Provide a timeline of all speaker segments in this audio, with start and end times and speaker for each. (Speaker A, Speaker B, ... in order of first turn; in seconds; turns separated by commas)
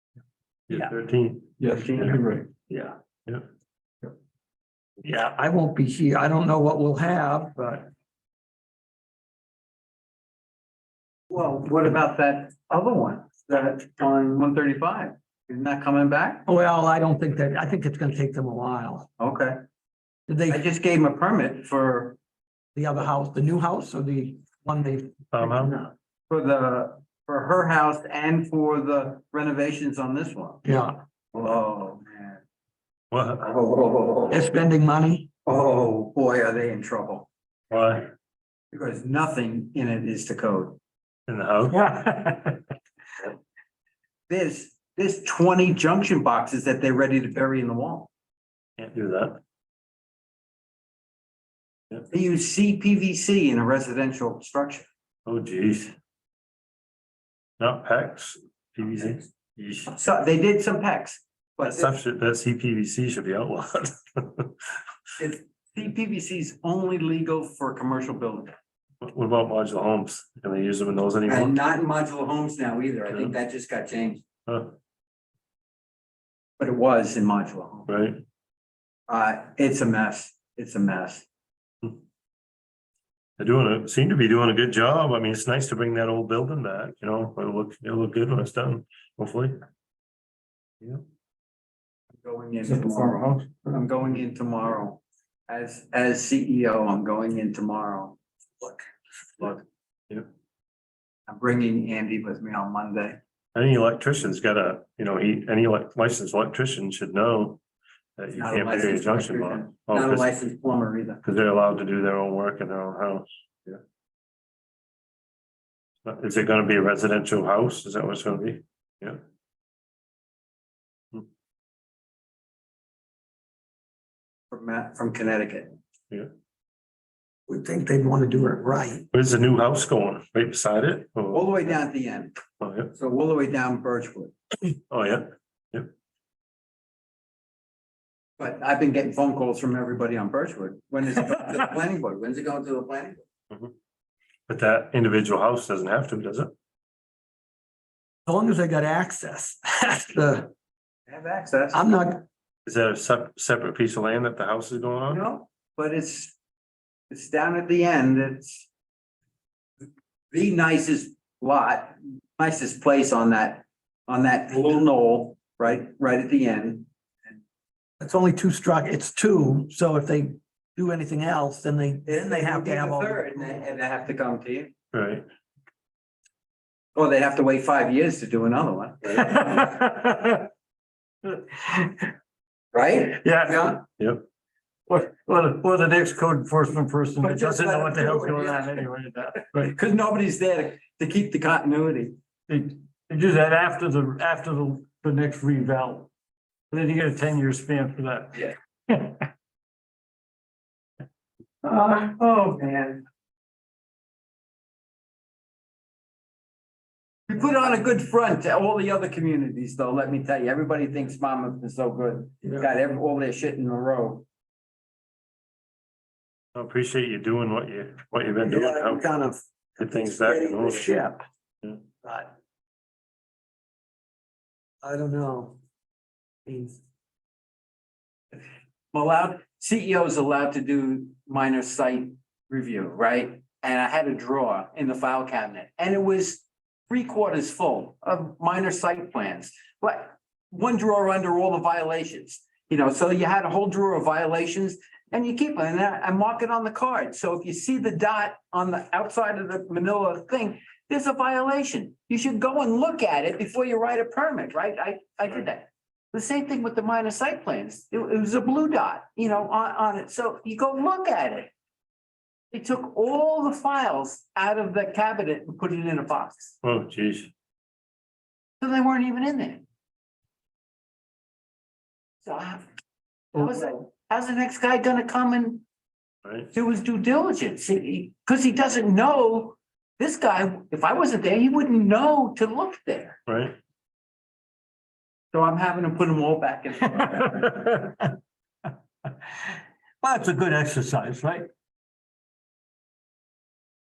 Speaker A: 0.7-2.1, Speaker B: 1.6-2.4, Speaker C: 1.8-2.4, Speaker D: 5.0-7.9, Speaker C: 11.3-16.4, Speaker D: 16.4-19.1, Speaker C: 19.2-19.6, Speaker D: 20.3-20.6, Speaker C: 20.5-22.2, Speaker D: 22.8-25.9, Speaker A: 25.3-25.8, Speaker C: 26.3-30.6, Speaker D: 30.6-31.0, Speaker C: 31.3-32.4, Speaker A: 33.1-33.5, Speaker C: 33.4-34.4, Speaker D: 34.3-35.3, Speaker C: 35.4-37.3, Speaker A: 37.7-38.1, Speaker C: 38.7-40.8, Speaker A: 41.3-41.8, Speaker B: 41.7-42.6, Speaker C: 44.3-48.1, Speaker A: 48.8-49.4, Speaker C: 52.1-54.9, Speaker A: 55.2-55.9, Speaker A: 57.6-59.9, Speaker C: 59.9-61.9, Speaker A: 61.6-64.5, Speaker C: 65.2-68.5, Speaker A: 69.0-71.6, Speaker C: 71.3-74.2, Speaker A: 74.5-74.7, Speaker C: 76.6-77.9, Speaker A: 77.9-78.2, Speaker C: 79.1-81.2, Speaker A: 83.4-89.5, Speaker C: 92.2-98.2, Speaker B: 92.7-93.5, Speaker C: 101.3-103.2, Speaker A: 103.5-107.6, Speaker A: 108.2-110.3, Speaker C: 108.4-111.2, Speaker A: 111.2-113.8, Speaker A: 116.0-119.2, Speaker C: 124.5-125.8, Speaker D: 127.5-129.1, Speaker A: 129.1-131.7, Speaker C: 131.3-132.4, Speaker A: 132.6-132.9, Speaker C: 132.9-134.3, Speaker A: 134.9-135.9, Speaker C: 138.4-143.2, Speaker A: 144.5-146.5, Speaker D: 148.2-150.5, Speaker C: 151.1-151.8, Speaker D: 151.7-152.2, Speaker A: 152.7-155.2, Speaker C: 155.1-156.3, Speaker C: 157.1-158.7, Speaker C: 160.3-166.9, Speaker D: 168.0-173.5, Speaker C: 172.1-174.7, Speaker A: 174.9-175.2, Speaker C: 176.9-179.2, Speaker B: 179.1-180.5, Speaker B: 181.3-182.1, Speaker C: 182.7-183.8, Speaker B: 183.2-183.8, Speaker A: 184.0-184.2, Speaker B: 184.9-189.7, Speaker C: 187.2-188.5, Speaker C: 189.7-192.2, Speaker B: 192.5-196.1, Speaker B: 196.7-199.3, Speaker C: 201.6-203.0, Speaker C: 207.3-214.2, Speaker A: 216.5-219.1, Speaker D: 218.4-221.2, Speaker A: 219.8-221.0, Speaker D: 222.0-222.3, Speaker D: 224.8-225.6, Speaker D: 226.4-226.8, Speaker C: 228.9-261.5, Speaker C: 262.5-266.6, Speaker A: 266.6-267.3, Speaker C: 268.6-269.6, Speaker C: 272.2-272.7, Speaker B: 273.4-273.8, Speaker C: 273.4-275.6, Speaker C: 276.5-283.2, Speaker A: 283.3-283.6, Speaker C: 285.3-287.5, Speaker B: 286.9-288.1, Speaker B: 290.0-291.5